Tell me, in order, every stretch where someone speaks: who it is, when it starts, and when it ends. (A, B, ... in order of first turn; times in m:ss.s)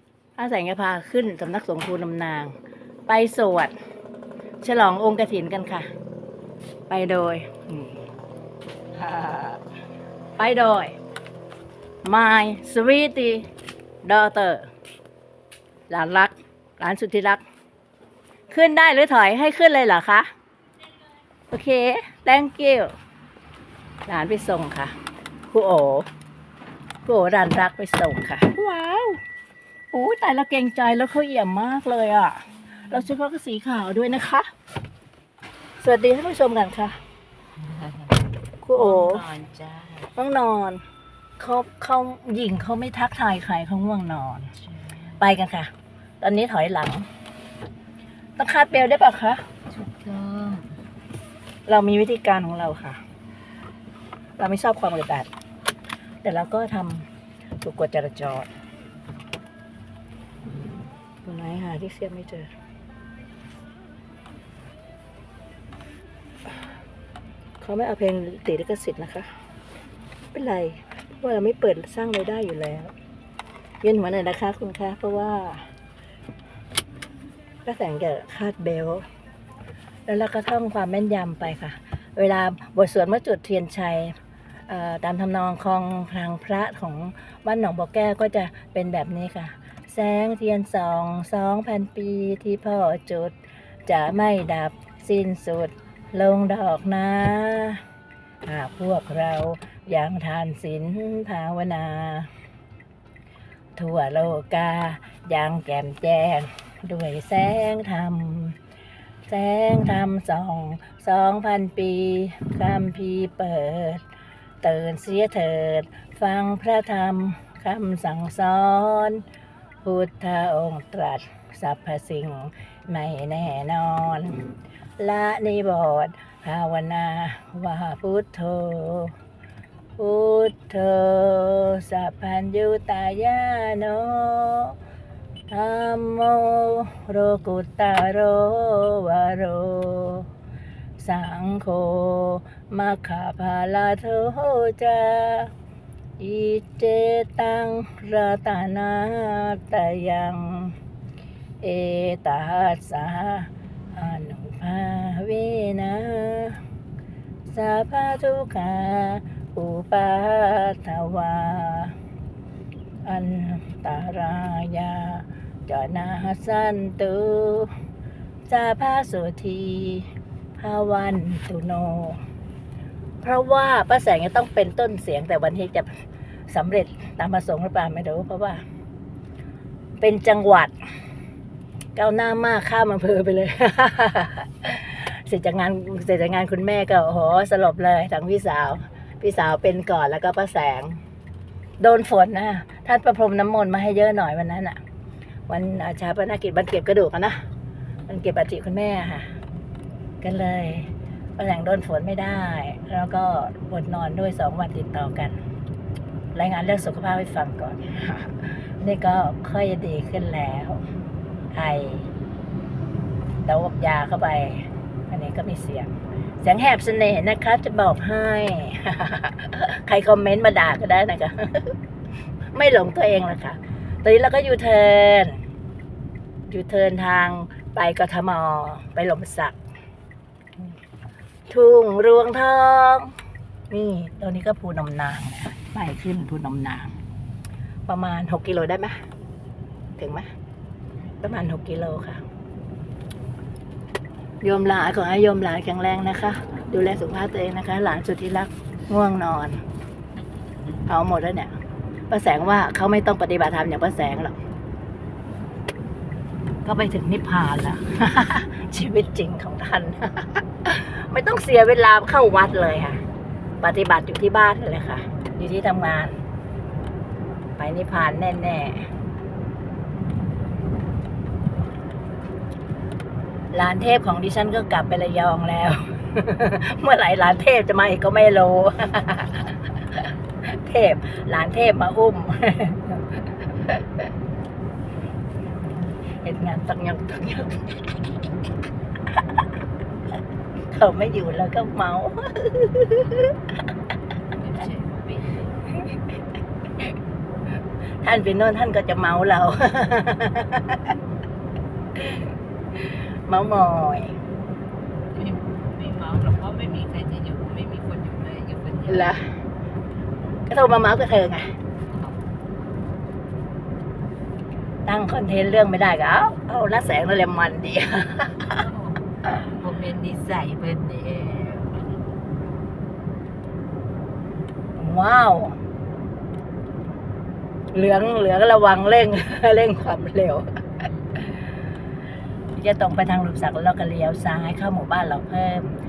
0:00.4-0:02.5 A
0:03.1-0:03.7 A
0:04.6-0:05.9 A
0:06.9-0:08.0 A
0:09.0-0:09.6 A
0:10.4-0:11.0 A
0:12.0-0:13.4 A
0:14.0-0:14.7 A
0:15.9-0:17.4 A
0:18.5-0:20.3 A
0:21.5-0:22.9 A
0:24.1-0:24.9 A
0:25.5-0:26.1 A
0:27.1-0:29.2 A
0:29.9-0:34.5 A
0:35.8-0:37.0 A
0:37.6-0:38.1 B
0:38.6-0:39.2 A
0:38.7-0:40.1 B
0:40.2-0:40.8 A
0:41.4-0:44.5 A
0:44.6-0:45.2 B
0:45.2-0:47.1 A
0:48.4-0:49.4 A
0:49.7-0:50.7 B
0:51.7-0:53.0 A
0:54.4-0:55.3 A
0:56.2-0:57.1 A
0:57.6-0:58.5 A
1:01.2-1:02.5 A
1:07.6-1:09.3 A
1:10.3-1:12.9 A
1:13.8-1:15.7 A
1:17.6-1:19.0 A
1:20.1-1:24.2 A
1:24.7-1:33.3 A
1:33.9-1:37.8 A
1:38.4-1:42.3 A
1:43.8-1:48.6 A
1:49.3-1:54.0 A
1:54.6-1:59.2 A
1:59.8-2:04.4 A
2:05.0-2:09.1 A
2:10.0-2:14.8 A
2:15.5-2:20.3 A
2:21.0-2:25.5 A
2:26.2-2:30.7 A
2:31.6-2:36.6 A
2:37.5-2:42.0 A
2:43.0-2:47.7 A
2:48.5-2:52.2 A
2:53.2-2:56.0 A
2:56.5-2:58.6 A
3:00.0-3:00.7 A
3:02.0-3:11.0 A
3:11.8-3:14.8 A
3:15.5-3:17.4 A
3:18.1-3:19.3 A
3:20.2-3:25.4 A
3:26.3-3:30.8 A
3:31.5-3:32.1 A
3:33.4-3:41.8 A
3:42.5-3:45.4 A
3:46.5-3:49.6 A
3:51.5-3:53.1 A
3:53.7-3:56.9 A
3:57.9-3:59.0 A
4:00.0-4:00.3 A
4:01.2-4:02.2 A
4:04.4-4:09.6 A
4:10.9-4:11.6 A
4:12.1-4:14.4 A
4:16.6-4:23.0 A
4:23.6-4:26.2 A
4:27.6-4:28.9 A
4:33.5-4:43.0 A
4:43.6-4:43.8 A
4:46.2-4:47.9 A
4:49.1-4:49.4 A
4:50.7-4:53.4 A
4:54.3-4:55.5 B
4:58.0-5:00.8 A
5:03.3-5:04.2 A
5:05.1-5:09.2 B
5:08.9-5:09.3 A
5:10.5-5:11.5 A
5:11.9-5:12.2 B
5:14.9-5:18.6 A
5:18.5-5:22.0 B
5:24.8-5:25.6 A
5:27.7-5:30.4 A
5:30.8-5:31.2 B
5:32.6-5:35.7 A